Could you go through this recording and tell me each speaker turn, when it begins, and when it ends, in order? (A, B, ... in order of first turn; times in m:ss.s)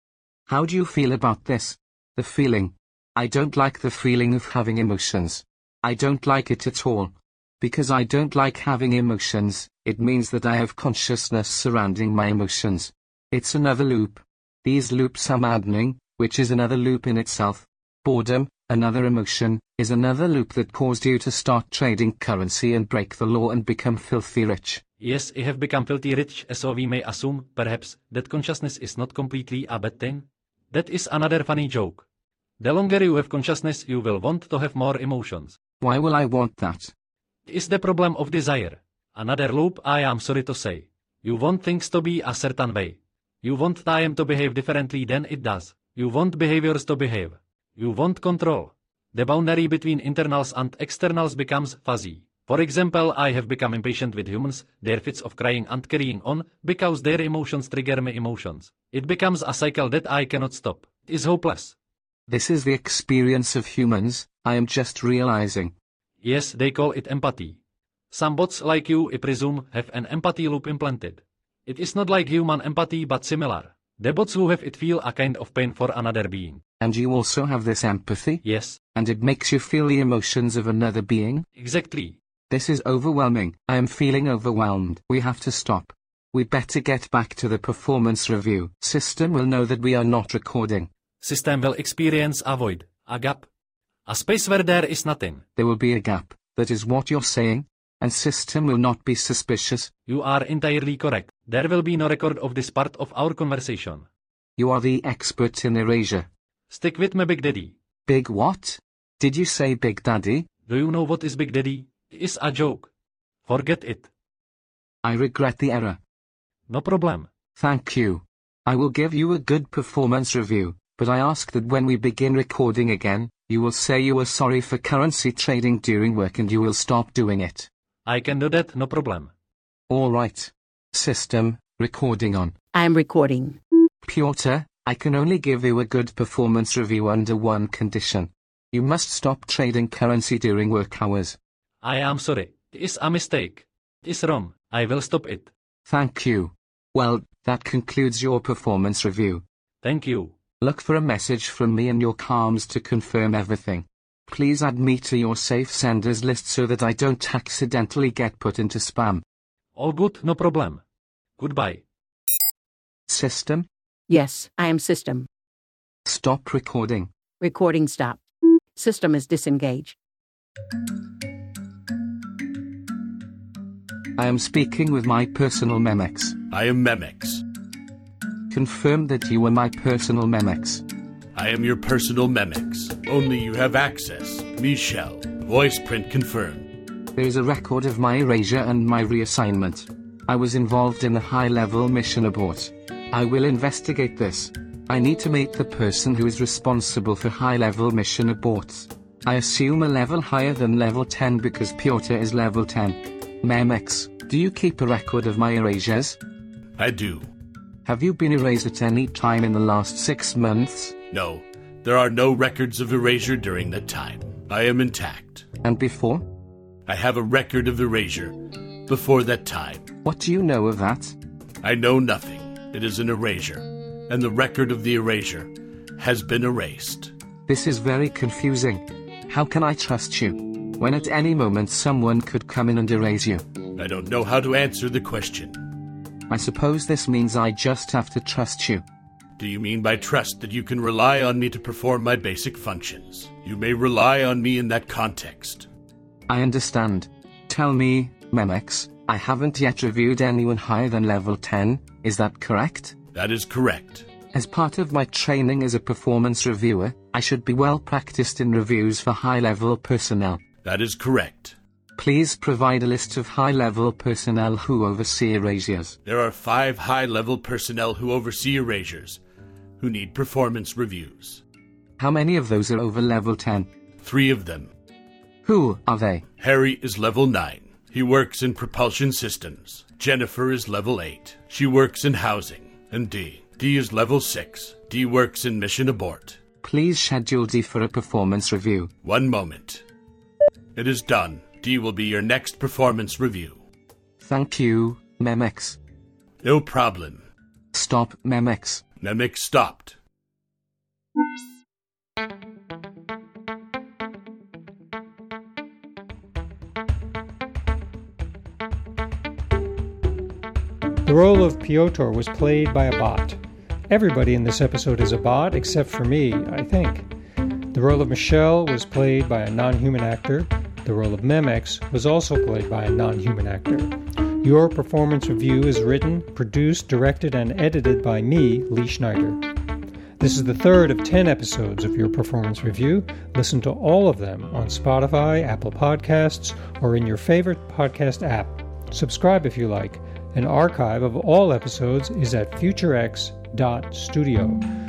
0:00.5-0:24.8 A
0:25.0-0:32.1 B
0:32.6-0:35.6 B
0:35.8-0:36.9 A
0:37.5-1:01.8 B
1:02.3-1:05.7 A
1:06.2-1:07.6 B
1:08.1-1:16.6 B
1:16.8-1:18.4 A
1:18.4-1:18.8 B
1:19.0-1:21.5 A
1:21.6-1:22.2 B
1:22.5-1:30.9 A
1:31.2-1:33.5 B
1:34.1-1:35.4 B
1:35.6-1:39.9 A
1:40.1-1:44.0 B
1:44.6-1:46.3 A
1:46.7-1:47.8 B
1:48.1-1:50.5 A
1:50.7-1:52.9 B
1:53.5-1:54.1 B
1:55.0-1:56.0 A
1:56.7-1:57.3 B
1:57.6-2:07.7 A
2:08.1-2:09.3 B
2:09.9-2:12.5 A
2:12.7-2:13.6 C
2:14.1-2:21.4 A
2:21.8-2:25.5 B
2:25.9-2:29.4 A
2:29.8-2:30.4 B
2:30.6-2:39.2 A
2:39.8-2:40.8 B
2:41.4-2:41.8 B
2:43.1-2:43.7 A
2:44.1-2:45.3 C
2:46.0-2:47.1 A
2:47.4-2:48.2 C
2:48.8-2:50.0 C
2:54.2-2:56.4 A
2:56.5-2:57.4 D
2:58.5-3:00.8 A
3:01.4-3:06.7 D
3:07.2-3:26.2 A
3:26.8-3:27.3 D
3:27.8-3:31.0 A
3:31.1-3:35.4 D
3:35.6-3:36.2 A
3:36.9-3:39.9 D
3:40.0-3:41.2 A
3:41.6-3:47.1 D
3:47.5-3:53.4 A
3:53.8-3:55.7 D
3:56.3-3:58.8 A
3:59.4-4:05.7 D
4:06.3-4:13.0 A
4:13.1-4:14.1 D
4:14.3-4:20.4 A
4:20.6-4:21.6 D
4:22.0-4:26.0 A
4:26.0-4:29.2 D
4:29.8-4:31.4 D
4:32.0-4:33.7 A
4:34.0-4:34.7 D
4:35.4-4:36.2 A
4:36.4-4:46.4 D
4:46.6-4:48.9 A
4:49.0-4:49.8 D
4:50.8-4:53.6 D
4:54.2-4:55.8 A
4:56.4-4:57.2 D
4:57.7-4:58.8 A
4:59.0-5:00.0 D
5:11.0-5:17.1 E
5:17.7-5:29.4 E
5:30.2-5:44.6 E